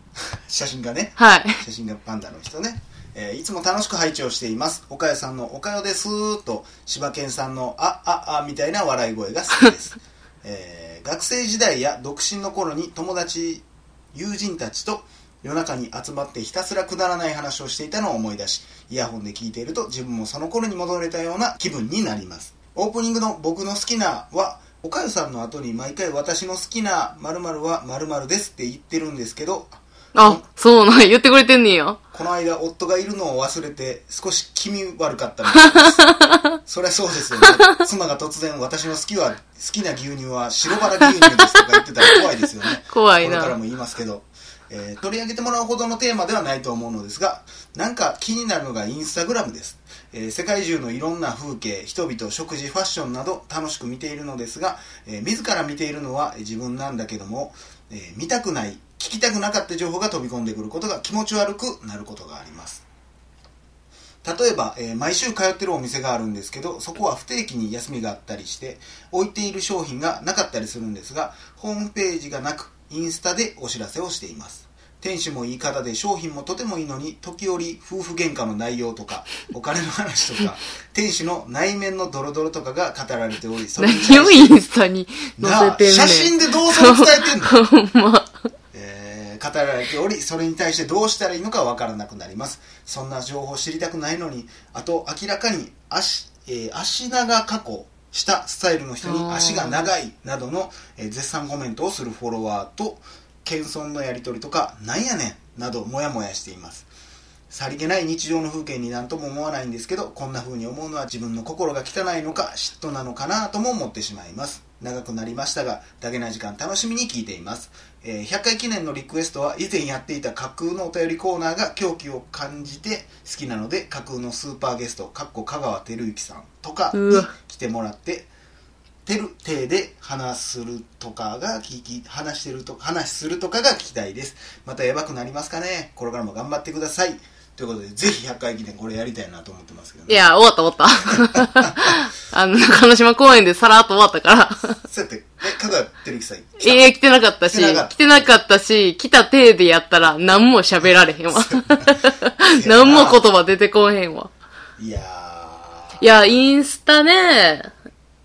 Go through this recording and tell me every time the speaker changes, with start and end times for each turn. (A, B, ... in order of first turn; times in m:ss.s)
0:00.5-0:30.4 A
0:01.2-0:01.6 B
0:30.1-0:32.0 B
0:32.1-1:02.8 A
0:35.6-0:36.4 B
0:41.3-0:41.6 B
0:42.9-0:43.6 B
1:04.2-1:24.6 A
1:23.8-1:28.3 B
1:25.4-1:27.6 A
1:28.7-1:46.9 A
1:39.0-1:39.9 B
1:47.5-2:08.3 A
2:06.9-2:07.3 B
2:09.0-2:20.3 A
2:20.1-2:24.8 B
2:24.8-2:28.4 A
2:26.6-2:34.3 B
2:30.9-2:32.0 A
2:32.5-2:33.3 A
2:34.8-2:36.0 A
2:36.0-2:37.7 B